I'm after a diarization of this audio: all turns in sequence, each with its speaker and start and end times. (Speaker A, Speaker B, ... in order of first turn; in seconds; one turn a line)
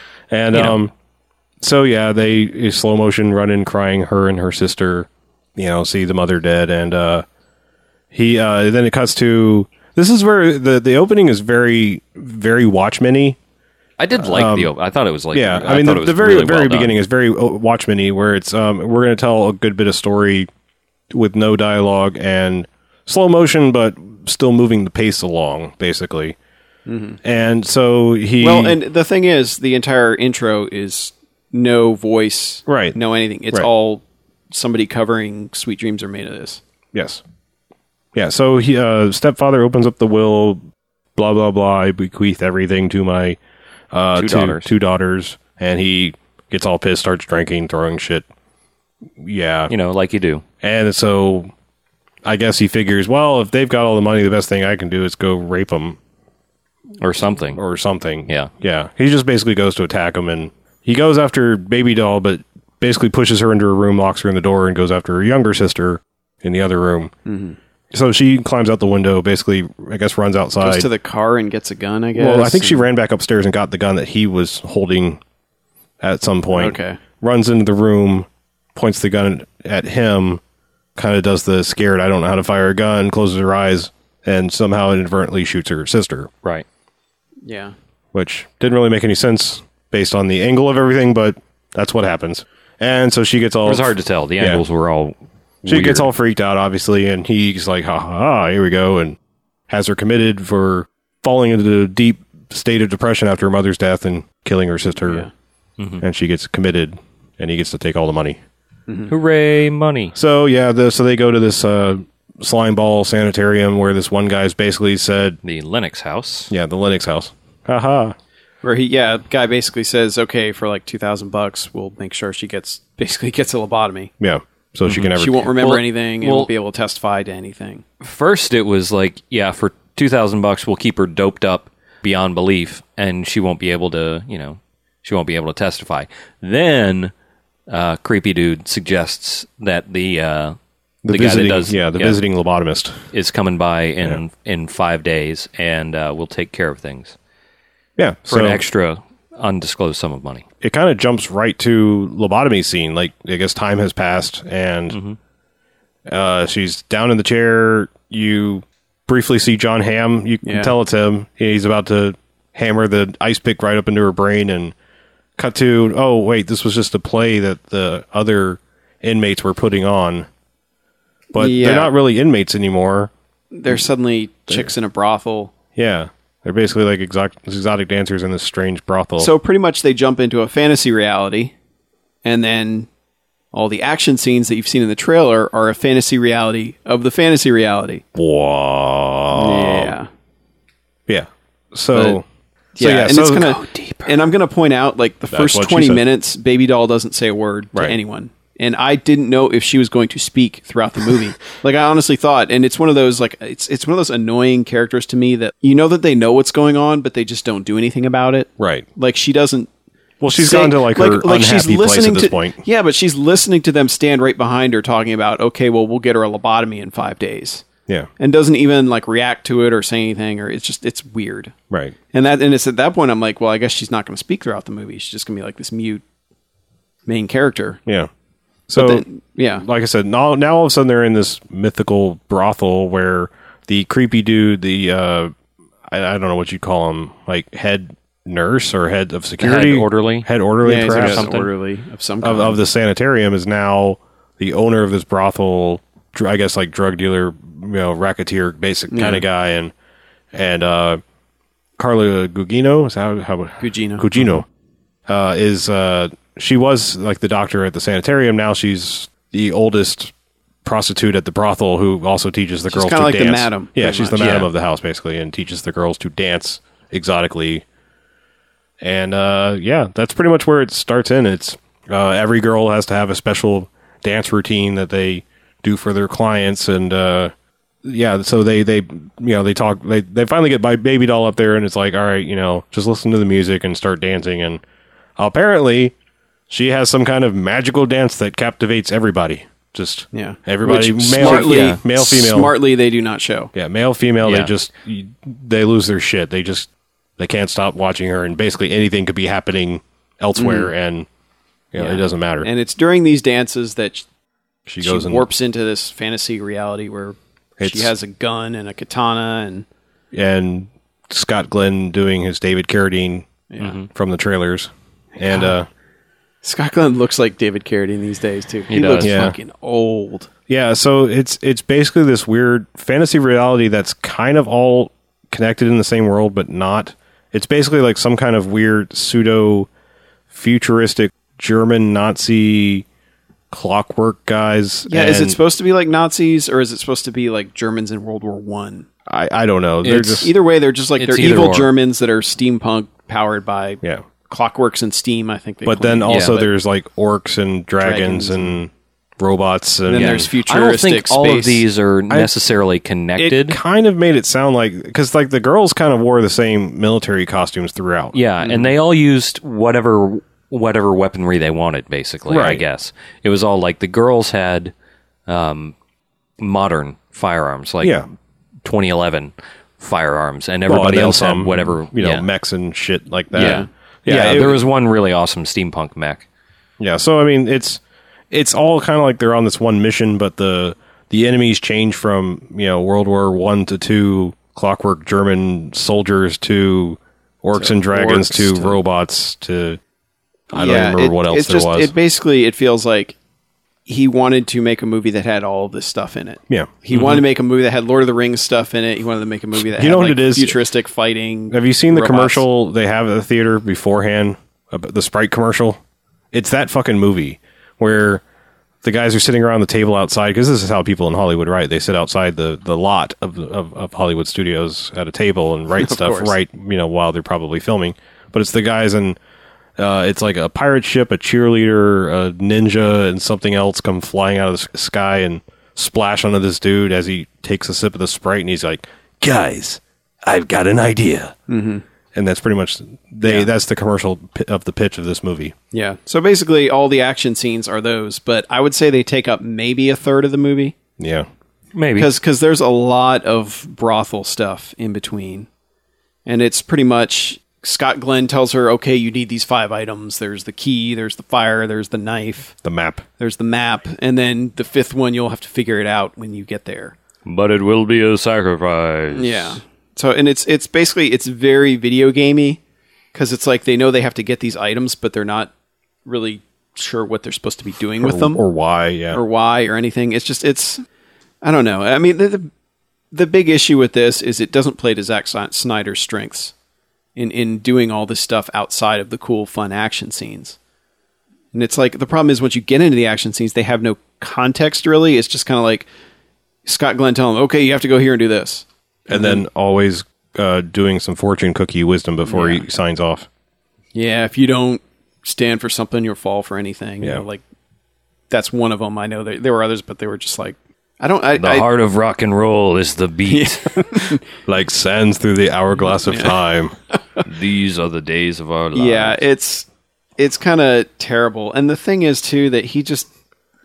Speaker A: 0.3-0.9
Speaker B: 0.5-0.8
Speaker A: 1.6-7.2
Speaker A: 8.1-13.4
Speaker B: 14.0-16.9
Speaker A: 14.2-14.7
Speaker A: 15.3-20.5
Speaker A: 21.1-26.4
Speaker C: 26.9-27.2
Speaker A: 27.2-28.8
Speaker C: 28.4-36.6
Speaker A: 32.6-33.0
Speaker A: 36.9-37.2
Speaker A: 38.1-40.6
Speaker A: 41.1-43.4
Speaker A: 43.9-48.2
Speaker B: 44.1-44.7
Speaker A: 49.2-49.7
Speaker B: 49.7-50.4
Speaker A: 50.6-51.5
Speaker A: 52.2-56.0
Speaker B: 57.0-57.6
Speaker A: 57.5-67.1
Speaker C: 67.2-67.6
Speaker A: 67.9-70.8
Speaker C: 70.6-72.8
Speaker A: 72.2-75.2
Speaker A: 76.0-80.4
Speaker C: 76.5-77.0
Speaker A: 81.0-86.3
Speaker C: 87.4-87.7
Speaker A: 88.1-94.6
Speaker B: 93.6-96.1
Speaker A: 95.6-99.2
Speaker A: 99.7-105.3
Speaker C: 105.0-105.3
Speaker B: 105.8-106.0
Speaker A: 106.0-108.4
Speaker C: 108.9-109.1
Speaker B: 109.1-110.1
Speaker A: 110.1-115.4
Speaker B: 115.4-116.5
Speaker A: 116.5-118.2
Speaker C: 118.6-124.1
Speaker A: 124.2-125.4
Speaker B: 124.9-126.5
Speaker C: 125.2-127.8
Speaker B: 128.0-137.1
Speaker B: 137.7-140.6
Speaker A: 141.0-143.0
Speaker B: 141.1-142.2
Speaker B: 143.1-147.1
Speaker A: 148.0-148.6
Speaker B: 148.3-150.4
Speaker A: 150.6-155.0
Speaker B: 154.9-155.2
Speaker A: 156.1-164.7
Speaker C: 160.4-160.7
Speaker A: 165.4-170.3
Speaker A: 171.3-173.1
Speaker C: 171.3-171.9
Speaker C: 173.5-175.5
Speaker A: 175.8-179.3
Speaker C: 179.2-181.5
Speaker C: 182.2-182.9
Speaker C: 183.5-188.0
Speaker A: 188.1-189.9
Speaker C: 189.3-190.1
Speaker A: 191.1-192.2
Speaker C: 191.9-192.2
Speaker C: 192.8-209.7
Speaker A: 192.8-193.6
Speaker B: 193.6-194.1
Speaker A: 195.3-196.0
Speaker A: 208.6-208.8
Speaker A: 210.2-212.6
Speaker C: 210.3-217.6
Speaker C: 218.2-221.5
Speaker A: 221.7-221.9
Speaker C: 222.1-226.0
Speaker C: 227.1-227.8
Speaker A: 228.7-229.0
Speaker C: 228.7-229.6
Speaker A: 229.6-235.3
Speaker A: 235.9-241.3
Speaker B: 239.4-240.3
Speaker C: 240.6-242.6
Speaker B: 240.8-241.5
Speaker A: 242.2-249.7
Speaker C: 248.9-249.2
Speaker A: 250.3-251.0
Speaker A: 251.8-254.4
Speaker C: 253.6-254.1
Speaker A: 255.1-260.1
Speaker A: 260.6-267.6
Speaker C: 262.7-264.4
Speaker B: 264.2-264.5
Speaker A: 268.8-277.3
Speaker A: 277.8-284.6
Speaker A: 285.2-285.9
Speaker A: 286.5-292.5
Speaker C: 290.1-293.5
Speaker B: 291.2-291.8
Speaker A: 293.5-301.1
Speaker B: 294.2-294.5
Speaker C: 300.4-300.7
Speaker A: 301.7-302.5
Speaker C: 301.8-304.1
Speaker A: 304.7-305.2
Speaker C: 304.8-309.6
Speaker A: 307.6-307.9
Speaker A: 310.1-313.3
Speaker C: 313.5-313.8
Speaker B: 313.6-313.9
Speaker A: 313.9-315.7
Speaker C: 315.2-315.5
Speaker C: 316.4-320.3
Speaker B: 318.7-319.1
Speaker A: 319.0-319.4
Speaker A: 320.5-329.7
Speaker A: 330.3-332.9
Speaker A: 333.5-335.4
Speaker C: 334.9-338.9
Speaker A: 339.1-340.3
Speaker B: 339.8-340.3
Speaker C: 340.2-346.5
Speaker B: 341.0-341.7
Speaker A: 345.6-350.3
Speaker B: 346.1-346.4
Speaker C: 347.8-348.6
Speaker C: 349.9-351.6
Speaker B: 349.9-353.6
Speaker A: 353.2-358.2
Speaker B: 358.1-364.7
Speaker C: 358.4-358.7
Speaker A: 362.3-362.6
Speaker B: 365.3-365.7
Speaker B: 366.4-368.0
Speaker B: 368.6-372.2
Speaker A: 370.7-374.6
Speaker B: 373.3-376.2
Speaker C: 373.4-373.7
Speaker A: 376.8-389.8
Speaker C: 387.5-388.8
Speaker A: 390.5-391.9
Speaker C: 390.5-393.1
Speaker C: 393.9-402.4
Speaker A: 396.5-396.7
Speaker B: 396.9-397.2
Speaker A: 399.7-400.6
Speaker A: 401.5-405.8
Speaker A: 406.3-408.2
Speaker A: 408.8-419.2
Speaker C: 415.8-416.3
Speaker A: 419.8-431.3
Speaker C: 431.5-431.8
Speaker A: 432.1-435.5
Speaker C: 433.2-433.5
Speaker C: 435.7-440.7
Speaker A: 441.0-441.3
Speaker B: 441.7-442.1
Speaker C: 441.9-445.5
Speaker C: 446.2-452.5
Speaker A: 452.6-453.0
Speaker C: 453.2-456.9
Speaker B: 457.2-459.6
Speaker C: 459.1-462.6
Speaker C: 463.1-465.5
Speaker C: 466.1-468.4
Speaker A: 468.0-469.2
Speaker C: 469.1-470.8
Speaker C: 471.4-472.5
Speaker C: 473.1-476.5
Speaker C: 477.1-480.6
Speaker C: 481.5-485.9
Speaker C: 486.6-489.4
Speaker A: 489.1-493.3
Speaker C: 492.2-492.6
Speaker C: 493.9-497.4
Speaker C: 498.3-501.7
Speaker B: 501.4-504.0
Speaker C: 503.3-504.2
Speaker A: 504.5-506.7
Speaker C: 506.1-506.4
Speaker B: 507.2-509.2
Speaker C: 508.7-509.6
Speaker C: 510.2-513.1